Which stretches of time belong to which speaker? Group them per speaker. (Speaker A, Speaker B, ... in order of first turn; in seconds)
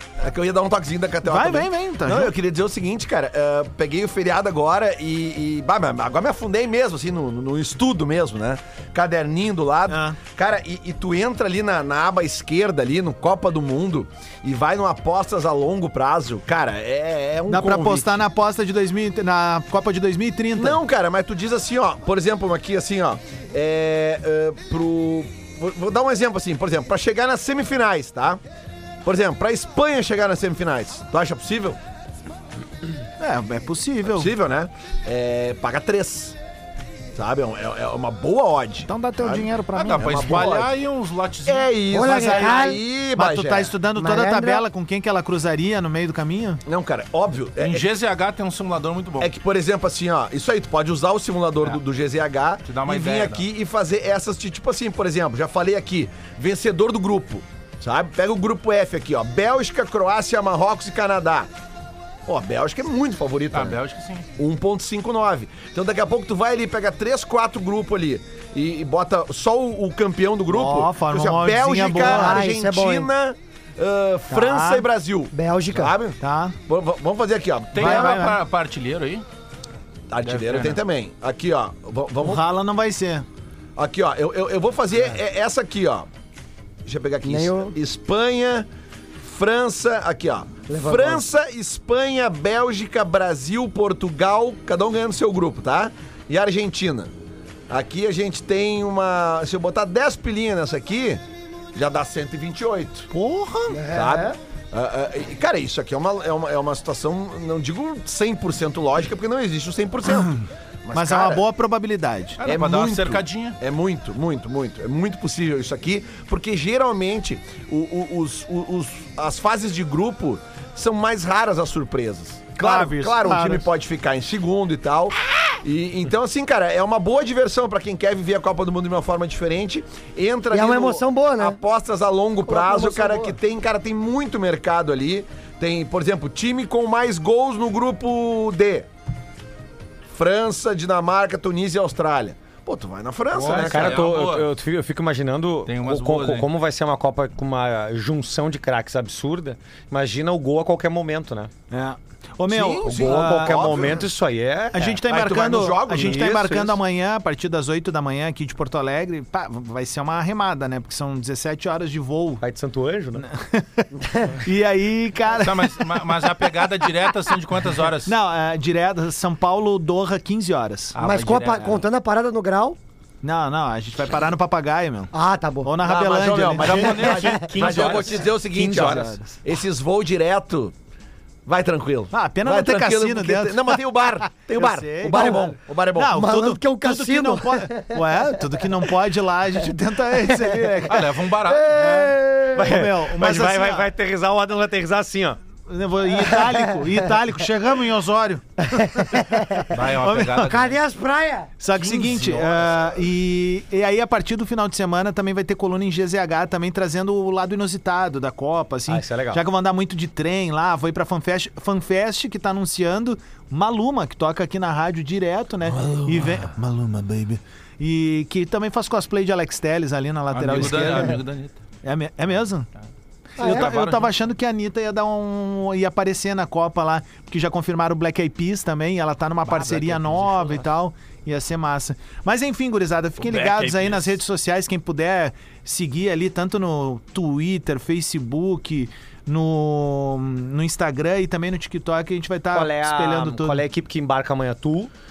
Speaker A: 0.2-18.1, 20.6-28.4, 29.1-31.8, 34.0-36.4, 37.1-40.7, 41.5-43.7, 46.7-47.9, 49.2-61.5, 62.3-63.8, 64.4-78.2, 80.1-82.4, 83.8-86.1, 86.9-88.7, 89.2-97.1, 97.7-101.2, 101.7-103.1, 103.9-111.4, 112.5-138.9, 140.1-144.0, 152.5-154.1, 155.1-156.4, 175.8-180.8, 181.5-186.2
Speaker B: 1.2-2.3, 9.9-10.2, 17.5-20.8, 33.2-34.3, 38.9-40.5, 42.0-46.6, 70.5-72.4, 74.3-74.9, 76.2-76.6, 77.8-78.4, 82.2-83.2, 103.1-103.8, 110.9-112.4, 122.6-123.7, 143.4-143.7, 151.7-153.9, 154.7-162.4, 163.2-163.9, 164.4-165.9, 168.1-171.0, 173.2-175.1, 175.6-176.9, 178.6-179.4, 182.1-183.8, 184.6-191.1, 191.8-193.9, 195.7-198.6, 199.8-200.5, 201.6-221.2, 221.8-222.7, 223.4-243.6
Speaker C: 39.7-41.7, 47.6-49.3, 52.6-53.5, 63.5-64.3, 77.7-79.2, 80.3-80.8, 112.4-113.6, 143.4-144.5, 145.7-146.5, 165.3-168.1, 170.9-171.8, 176.6-178.3, 190.9-192.0, 199.7-200.8, 201.8-202.7, 215.8-216.5, 220.3-221.6, 223.4-224.1, 229.5-230.6, 233.2-234.2
Speaker D: 41.9-42.8, 44.0-44.7, 72.0-73.1, 75.3-76.0, 87.2-87.7, 90.7-91.2, 103.7-104.4, 130.5-131.6, 132.5-133.4, 171.0-172.8, 175.1-175.8, 176.8-177.4, 185.1-185.5, 186.1-188.6, 190.2-190.9, 191.4-192.7, 196.2-196.9, 198.7-199.7, 200.4-201.6, 223.4-223.8
Speaker E: 143.5-151.5, 153.0-155.0, 155.9-156.8, 162.4-163.3, 177.1-179.1, 192.5-195.4, 208.9-209.4, 242.5-244.9